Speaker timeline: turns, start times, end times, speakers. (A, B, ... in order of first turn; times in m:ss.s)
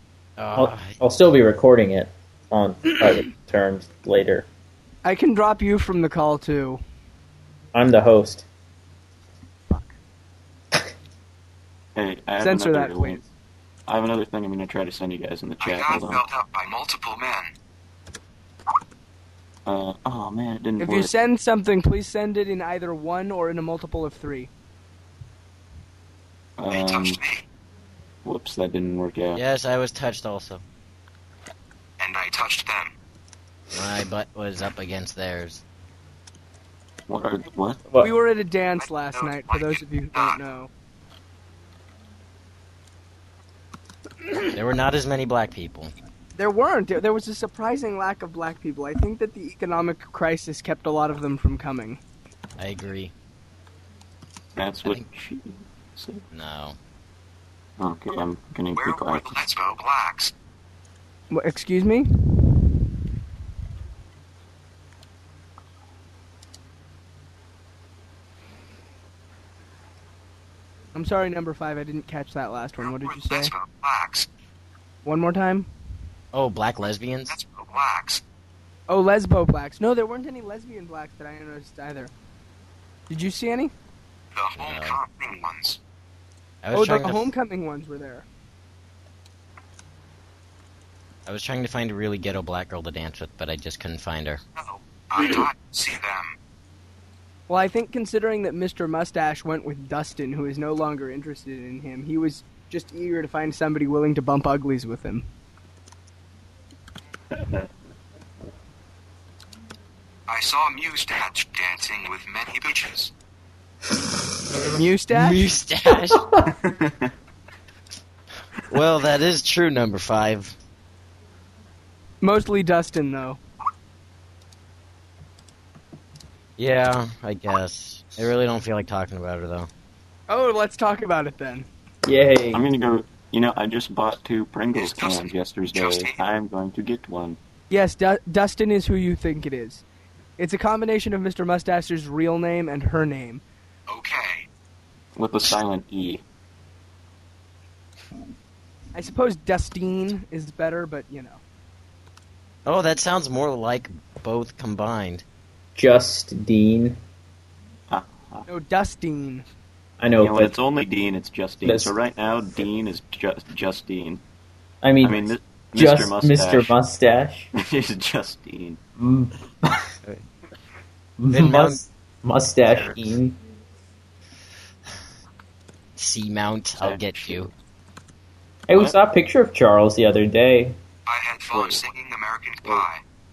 0:00.4-0:01.0 A
0:00.6-0:04.4 B
0:05.0-0:06.8 C
0:07.7-0:08.4 B
0:09.7-0:09.9 C
0:11.9-0:13.2 D
0:12.4-0:13.2 C
0:13.9-0:16.2 D
0:15.6-0:17.5 E
0:19.6-0:21.1 D
0:20.8-0:24.5 C
0:26.6-0:27.2 D
0:26.7-0:27.4 E
0:28.2-0:29.4 D
0:29.3-0:30.6 A
0:32.0-0:32.9 E
0:33.7-0:35.6 A
0:37.1-0:37.8 D
0:38.0-0:40.7 C
0:38.8-0:40.4 E
0:44.5-0:45.9 A
0:46.4-0:52.0 C
0:52.6-0:53.1 A
0:54.5-0:56.2 D
0:56.3-0:56.8 A
0:57.8-0:59.4 D
0:58.7-1:00.3 E
1:01.3-1:02.8 C
1:10.9-1:13.5 C
1:12.8-1:14.3 E
1:15.0-1:15.7 C
1:16.3-1:17.3 A
1:17.3-1:18.2 E
1:18.9-1:22.1 C
1:23.1-1:23.7 C
1:24.3-1:25.8 E
1:24.6-1:25.0 A
1:26.6-1:27.3 A
1:26.7-1:28.2 C
1:31.2-1:34.4 A
1:34.6-1:36.4 E
1:37.5-1:45.3 C
1:50.3-1:53.1 E
1:54.7-1:55.4 C
1:55.1-1:56.3 A
1:56.5-1:57.1 D
1:58.7-2:00.5 A
2:02.2-2:03.4 C
2:06.6-2:09.7 A
2:10.3-2:11.7 C
2:12.0-2:12.6 B
2:12.5-2:17.4 D
2:14.7-2:16.2 E
2:17.7-2:19.8 C
2:20.4-2:23.4 C
2:23.9-2:24.5 E
2:25.2-2:26.2 D
2:28.9-2:31.4 C
2:32.6-2:35.2 A
2:35.8-2:37.0 B
2:37.9-2:38.4 D
2:38.5-2:39.4 C
2:40.0-2:40.5 B
2:40.2-2:44.2 D
2:41.6-2:41.9 B
2:44.8-2:47.5 B
2:45.0-2:46.7 D
2:47.5-2:48.8 D
2:49.0-2:49.8 B
2:51.2-2:53.4 B
2:51.3-2:51.8 A
2:56.0-2:57.5 A
2:56.8-2:57.5 D
2:58.7-3:00.8 B
3:01.0-3:03.0 E
3:01.5-3:01.8 D